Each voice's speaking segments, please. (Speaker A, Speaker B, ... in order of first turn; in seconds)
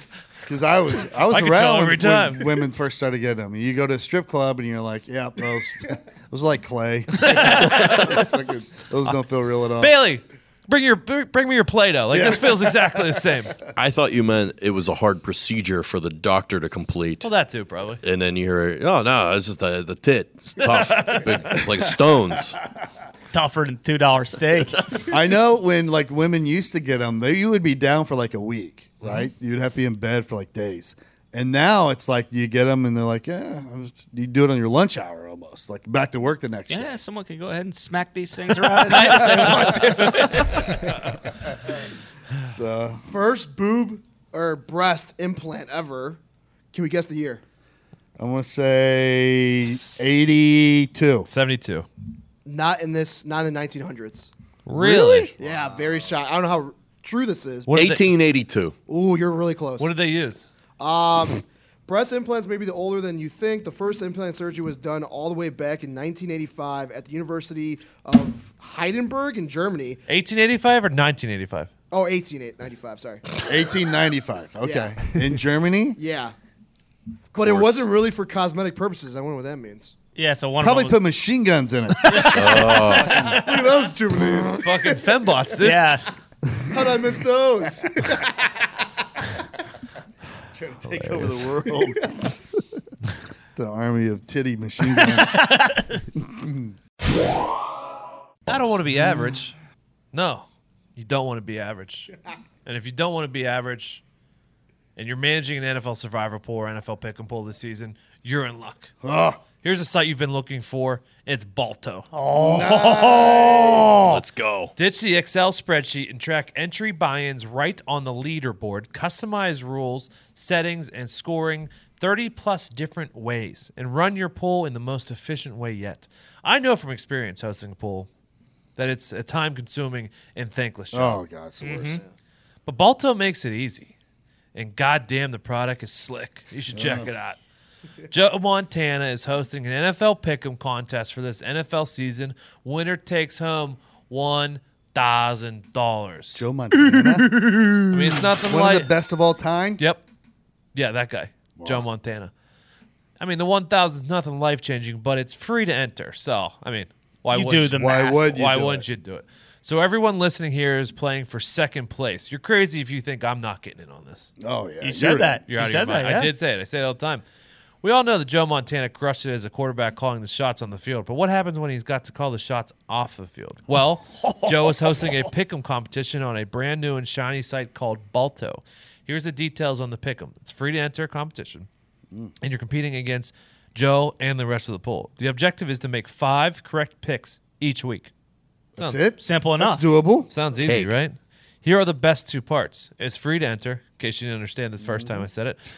Speaker A: 0.5-9.9, 12.1-13.0, 25.1-37.0, 39.0-40.7, 42.4-43.0, 48.2-51.3, 54.8-56.1, 73.4-76.0, 80.6-83.2, 86.5-87.0, 90.5-92.2, 93.5-95.4, 96.2-96.8, 98.5-99.4, 109.0-109.4, 112.3-114.0, 130.9-132.0, 136.7-137.1, 146.3-149.8, 151.6-151.9, 157.8-158.8, 164.4-165.4, 188.8-190.3, 194.8-195.2
Speaker B: 1.3-2.6, 7.2-8.2, 9.8-13.6, 17.2-18.0, 39.0-39.8, 51.3-51.9, 54.7-55.3, 57.7-58.1, 59.8-60.4, 70.1-71.7, 84.5-85.9, 90.9-91.5, 98.5-99.6, 100.1-100.5, 101.0-102.1, 102.7-104.0, 105.0-108.9, 109.6-112.1, 114.8-128.1, 128.8-131.2, 132.7-133.9, 134.6-137.4, 138.1-146.4, 147.9-148.9, 150.8-152.3, 153.2-164.3, 165.5-167.2, 167.8-181.7, 182.4-188.1, 188.8-189.0, 190.3-195.6
Speaker C: 13.8-17.3, 18.0-22.6, 57.7-58.8, 77.3-77.9, 82.2-83.3, 114.0-114.7, 190.6-191.0
Speaker D: 23.3-24.9, 36.7-40.9, 80.2-81.0, 82.1-82.4, 85.6-86.1, 95.2-95.9, 112.1-114.2, 131.6-132.0, 157.3-158.3, 164.8-166.3, 189.2-189.8
Speaker E: 43.1-46.2, 46.7-47.4, 52.5-54.3, 55.4-57.7, 58.9-59.9, 60.8-70.0, 71.9-73.4, 74.6-75.1, 76.0-76.3, 77.3-79.9, 83.2-85.1, 86.7-88.5